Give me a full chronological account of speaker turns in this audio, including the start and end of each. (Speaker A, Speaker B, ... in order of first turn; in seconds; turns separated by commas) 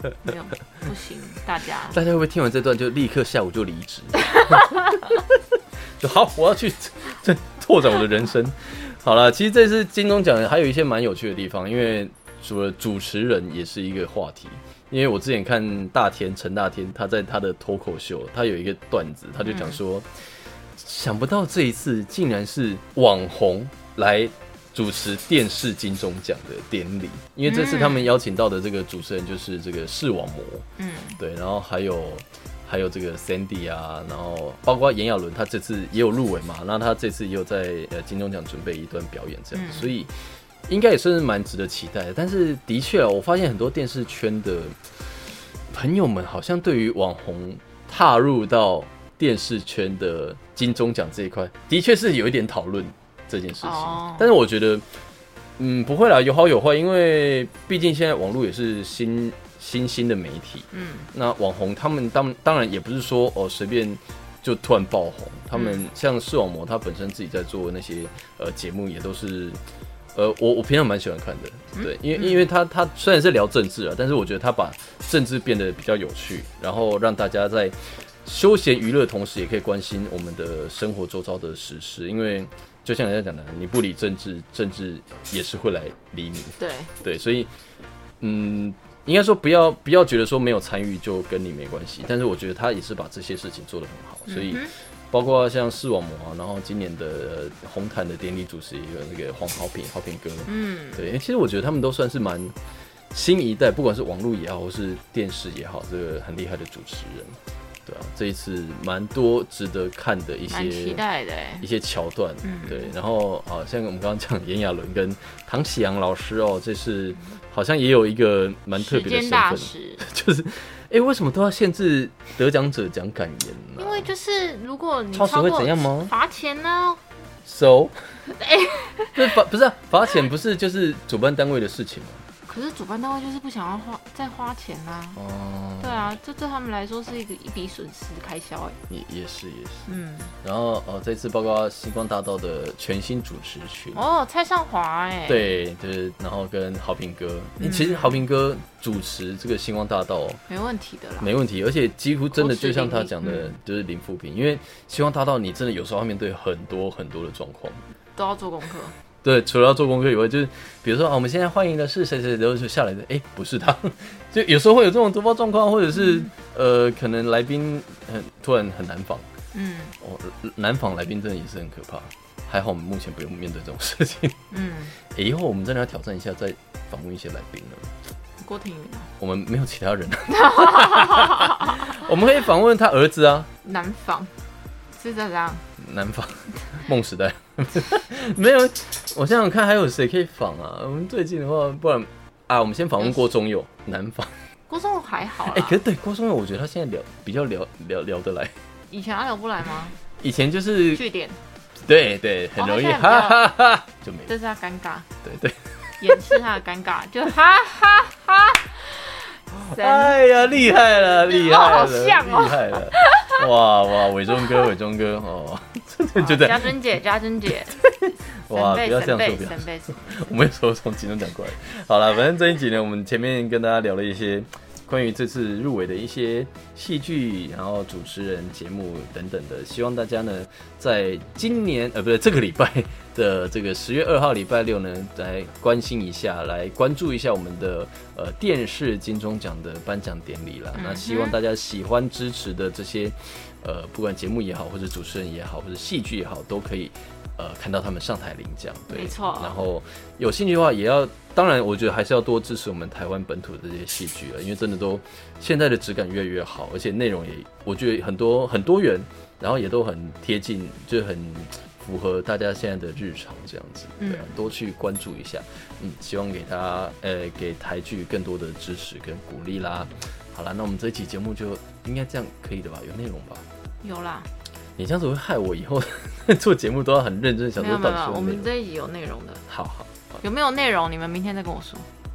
Speaker A: 0.2-2.0, Speaker B: 1.9-5.2, Speaker B: 6.0-30.7, Speaker A: 19.5-19.8, Speaker A: 27.5-28.1, Speaker A: 30.8-31.2, Speaker B: 31.2-40.1, Speaker A: 39.5-39.9, Speaker B: 40.7-54.9, Speaker A: 53.6-54.3, Speaker B: 55.6-69.6, Speaker A: 60.7-61.1, Speaker A: 65.5-65.9, Speaker B: 70.2-87.5, Speaker A: 71.7-72.5, Speaker A: 86.6-86.9, Speaker B: 88.2-102.6, Speaker A: 94.3-94.7, Speaker A: 100.5-101.1, Speaker B: 103.1-111.0, Speaker A: 110.5-111.7, Speaker B: 111.6-124.1, Speaker A: 112.4-112.9, Speaker A: 118.8-120.0, Speaker A: 123.8-127.0, Speaker B: 125.1-126.1, Speaker B: 127.5-128.0, Speaker A: 128.3-129.3, Speaker B: 129.2-132.2, Speaker A: 132.5-135.2, Speaker B: 135.2-136.1, Speaker A: 135.8-138.8, Speaker B: 138.9-139.9, Speaker A: 139.9-140.3, Speaker B: 140.4-144.0, Speaker A: 143.9-145.5, Speaker B: 145.3-150.4, Speaker A: 147.6-148.2, Speaker A: 150.5-151.3, Speaker B: 151.2-157.8, Speaker A: 152.3-153.5, Speaker A: 158.2-158.9, Speaker B: 159.2-169.3, Speaker A: 169.5-169.9, Speaker B: 170.0-174.4, Speaker A: 174.5-174.9, Speaker B: 175.1-177.9, Speaker A: 178.4-179.1, Speaker B: 179.2-183.5, Speaker A: 180.3-182.1, Speaker A: 183.6-184.3, Speaker A: 184.9-185.6, Speaker B: 185.8-194.3, Speaker A: 194.7-195.8, Speaker B: 195.5-198.5, Speaker A: 198.9-200.0, Speaker B: 200.2-201.0, Speaker A: 200.9-201.4, Speaker B: 201.8-204.3, Speaker A: 202.6-203.5, Speaker A: 204.3-205.1, Speaker B: 205.2-206.4, Speaker A: 206.0-213.4, Speaker B: 209.5-216.8, Speaker A: 216.1-217.8, Speaker B: 217.7-273.4, Speaker A: 218.5-220.3, Speaker A: 240.8-241.4, Speaker A: 248.9-249.5, Speaker A: 264.0-264.3, Speaker A: 273.8-274.3, Speaker B: 274.8-278.5, Speaker A: 277.6-279.4, Speaker B: 279.5-279.9, Speaker A: 280.2-281.9